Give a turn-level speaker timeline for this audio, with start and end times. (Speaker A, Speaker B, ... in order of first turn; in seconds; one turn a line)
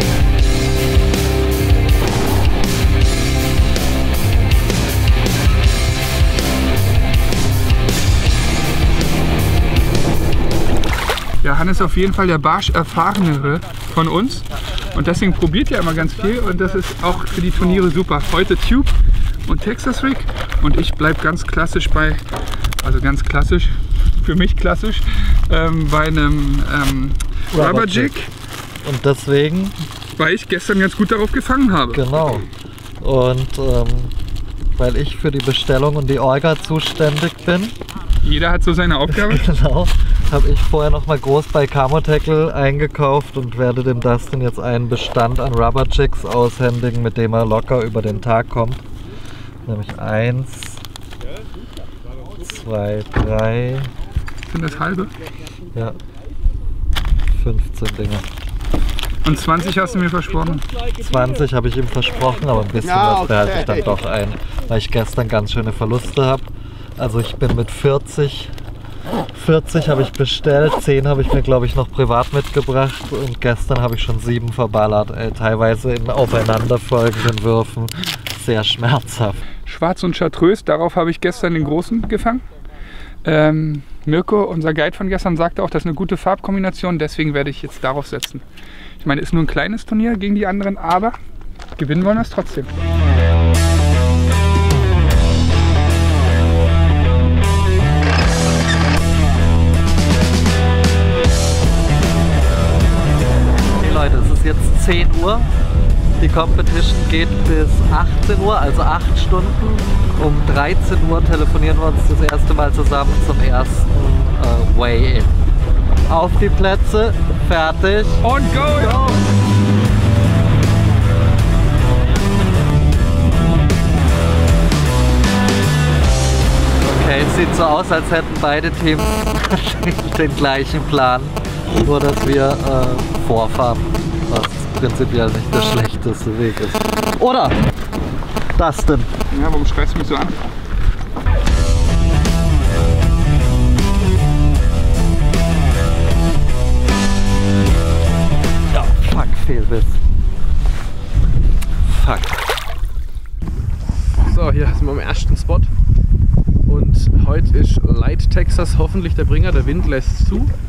Speaker A: 11.4-18.9
Speaker A: 19.5-22.2
Speaker A: 22.8-28.3
Speaker B: 27.5-28.1
Speaker B: 28.8-29.8
Speaker A: 30.1-32.0
Speaker B: 31.9-32.5
Speaker B: 33.0-34.1
Speaker B: 34.8-37.7
Speaker A: 38.2-39.4
Speaker B: 39.1-48.8
Speaker B: 49.6-50.8
Speaker B: 52.3-53.9
Speaker A: 54.5-55.1
Speaker B: 57.3-58.2
Speaker A: 59.2-60.6
Speaker B: 60.9-68.5
Speaker B: 69.3-79.4
Speaker A: 79.7-82.4
Speaker A: 83.2-88.4
Speaker A: 89.0-91.2
Speaker A: 91.8-92.7
Speaker B: 103.8-105.5
Speaker B: 106.2-115.4
Speaker B: 116.1-119.2
Speaker A: 118.2-119.0
Speaker B: 126.8-137.6
Speaker B: 138.6-139.1
Speaker A: 139.3-140.4
Speaker B: 148.7-150.0
Speaker B: 151.8-152.4
Speaker C: 154.2-155.7
Speaker C: 156.7-160.5